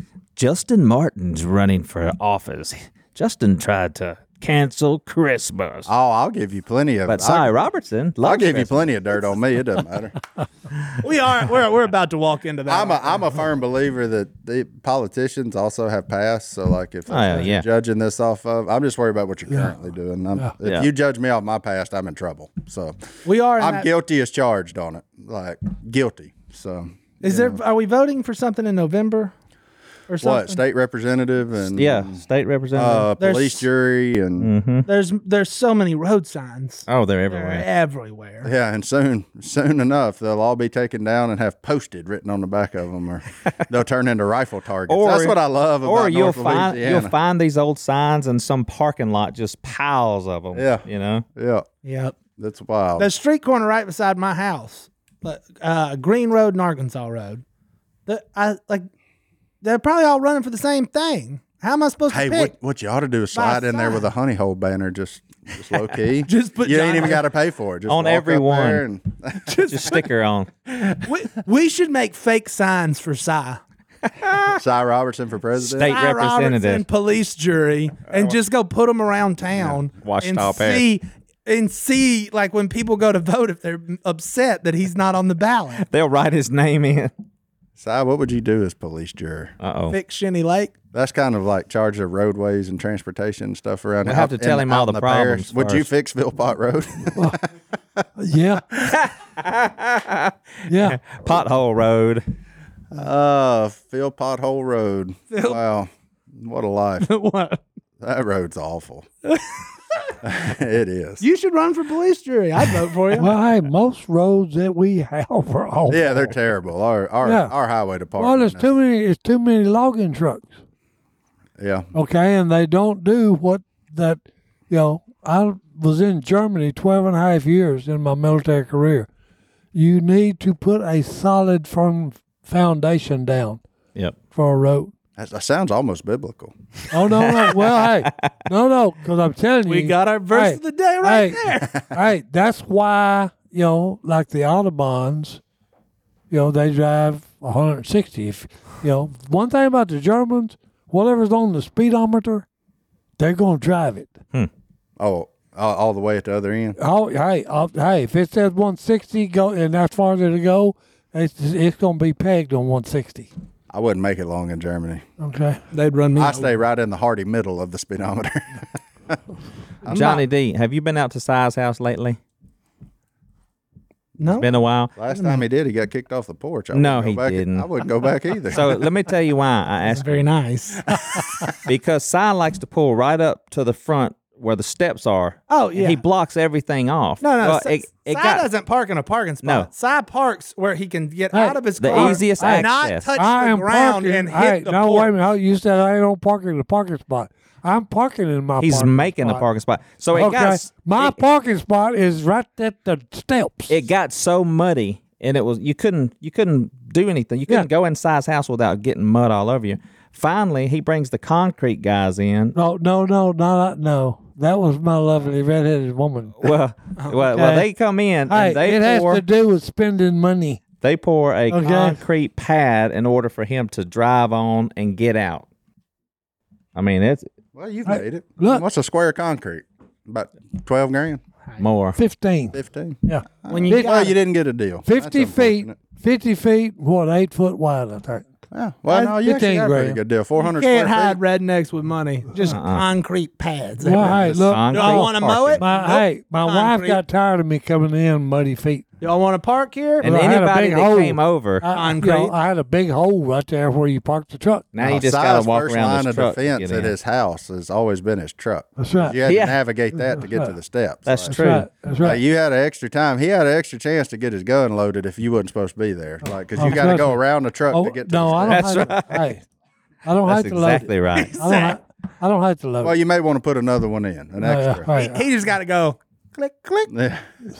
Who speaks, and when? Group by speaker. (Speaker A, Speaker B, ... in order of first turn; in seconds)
Speaker A: 0.3-5.9, 7.1-8.9, 17.1-17.6, 31.7-33.1, 34.4-34.9, 36.9-37.6, 44.9-51.2, 67.9-68.8, 69.7-70.5, 74.2-74.5, 75.6-76.8, 80.0-80.8, 85.8-87.1, 89.6-90.0, 94.0-95.8, 98.9-102.2, 137.1-138.1, 169.8-172.2, 174.4-174.9, 176.7-177.7, 178.5-180.0, 181.6-188.4, 189.4-189.7, 191.8-193.1, 198.6-201.2, 203.7-212.6, 216.4-219.2, 220.8-225.5, 226.7-227.2, 231.6-232.0, 242.5-242.8, 244.0-245.6, 250.0-251.7, 254.7-256.9, 259.2-259.6, 261.1-261.7, 268.5-269.2, 270.3-271.3
Speaker B: 5.9-7.5, 8.2-10.2, 12.7-23.0, 23.6-27.6, 30.2-32.2, 32.7-34.5, 38.4-47.1, 50.5-50.8, 51.4-51.6, 52.4-53.1, 62.1-69.8, 74.5-76.0, 87.8-89.5, 90.9-98.0, 102.9-107.1, 108.0-109.1, 110.2-111.2, 115.9-118.7, 121.6-121.9, 135.2-136.5, 155.0-156.8, 163.7-165.0, 166.2-169.2, 174.9-178.7, 180.9-181.2, 227.5-231.2, 232.5-235.8, 238.5-241.2, 254.8-261.3, 262.0-268.7, 272.8-274.9, 276.9-277.2
Speaker C: 11.0-13.4, 23.2-23.9, 27.2-29.3, 30.1-30.6, 33.2-33.6, 34.9-38.5, 51.8-52.1, 53.0-57.4, 58.0-58.9, 59.6-62.5, 63.3-64.0, 66.3-67.2, 69.5-70.0, 71.0-73.6, 75.8-85.8, 89.9-90.7, 105.3-105.6, 107.0-107.6, 109.3-109.6, 111.2-113.3, 139.7-141.8, 165.7-166.5, 169.8-170.2, 174.2-174.5, 175.1-175.4, 179.8-181.0, 185.5-186.0, 187.2-195.1, 233.5-234.2, 240.4-247.0, 249.0-250.1, 251.7-252.3, 271.1-271.8, 274.9-276.9
Speaker D: 97.1-97.4, 98.2-98.6, 100.7-101.0, 113.1-116.3, 117.2-117.5, 118.2-120.5, 121.9-129.1, 129.7-133.6, 134.3-134.9, 136.9-145.4, 146.3-152.4, 153.2-154.2, 156.8-163.3, 165.2-165.6, 191.3-199.4, 200.1-203.8, 212.5-216.5, 217.3-217.7, 218.3-220.6, 221.5-222.0, 227.9-228.6, 231.9-233.9, 234.8-238.2, 238.9-240.0, 243.8-248.8, 250.0-254.7, 258.8-259.2, 259.9-260.5, 261.3-262.2, 266.5-269.4, 270.0-272.9, 274.4-275.2